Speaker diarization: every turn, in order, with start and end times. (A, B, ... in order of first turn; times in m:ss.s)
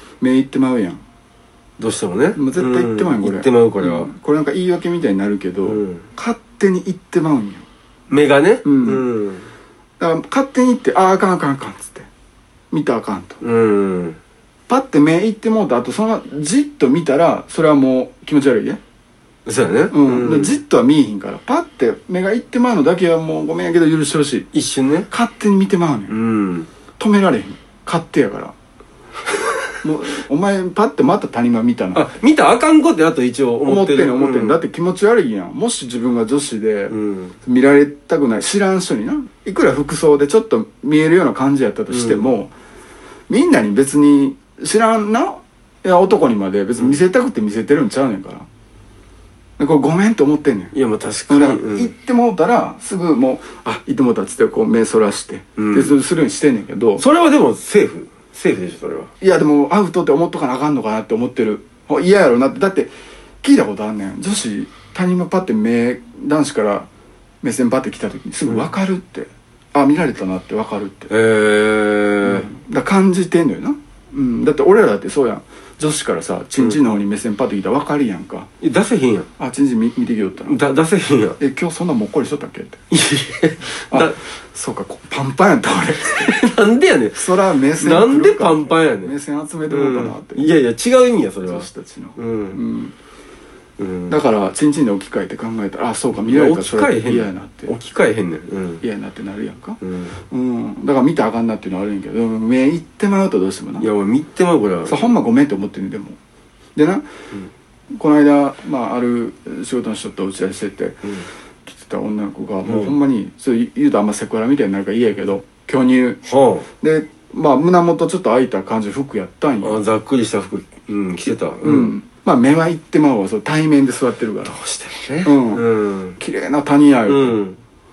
0:00.2-0:01.0 A
0:01.8-0:04.1 B
0:02.3-0:07.6 A
0:05.6-0:06.0 B
0:08.1-0:09.4 B
0:08.6-0:09.1 A
0:10.0-0:12.1 A
0:12.7-0:13.4 A
0:13.4-0:14.2 B
0:14.7-0:18.8 A
0:19.4-0:20.5 B
0:19.9-0:24.5 A
0:24.5-0:25.1 B
0:25.1-0:26.1 A
0:26.1-0:26.7 B
0:27.0-0:28.5 A
0:29.8-0:32.2 A
0:31.9-0:34.6 B
0:33.6-0:42.5 A
0:36.9-0:37.3 B
0:41.9-0:42.2 B
0:43.3-0:48.5 A
0:49.6-0:50.7 A
0:50.7-0:51.9 B
0:51.3-0:57.0 A
0:55.6-0:55.9 B
0:57.0-0:59.1 B
0:59.2-1:02.9 A
1:03.4-1:06.9 A
1:07.4-1:11.1 A
1:11.1-1:12.5 B
1:12.2-1:18.5 A
1:18.6-1:19.3 B
1:19.4-1:20.6 A
1:20.4-1:21.4 B
1:21.4-1:22.8 A
1:22.9-1:24.2 B
1:23.9-1:26.5 A
1:26.0-1:27.3 B
1:27.1-1:30.5 A
1:27.8-1:29.1 B
1:29.7-1:31.6 B
1:31.5-1:32.9 A
1:32.2-1:32.6 B
1:33.8-1:34.2 B
1:34.1-1:37.7 A
1:36.2-1:38.8 B
1:38.8-1:43.9 A
1:39.8-1:40.1 B
1:43.8-1:45.1 B
1:44.8-1:46.2 A
1:46.8-1:47.0 A
1:47.9-1:56.2 A
1:52.6-1:52.9 B
1:56.2-1:56.7 B
1:56.8-1:59.8 A
1:59.6-2:01.9 B
2:01.2-2:04.6 A
2:04.5-2:06.2 B
2:05.2-2:05.7 A
2:06.2-2:07.4 A
2:07.1-2:07.6 B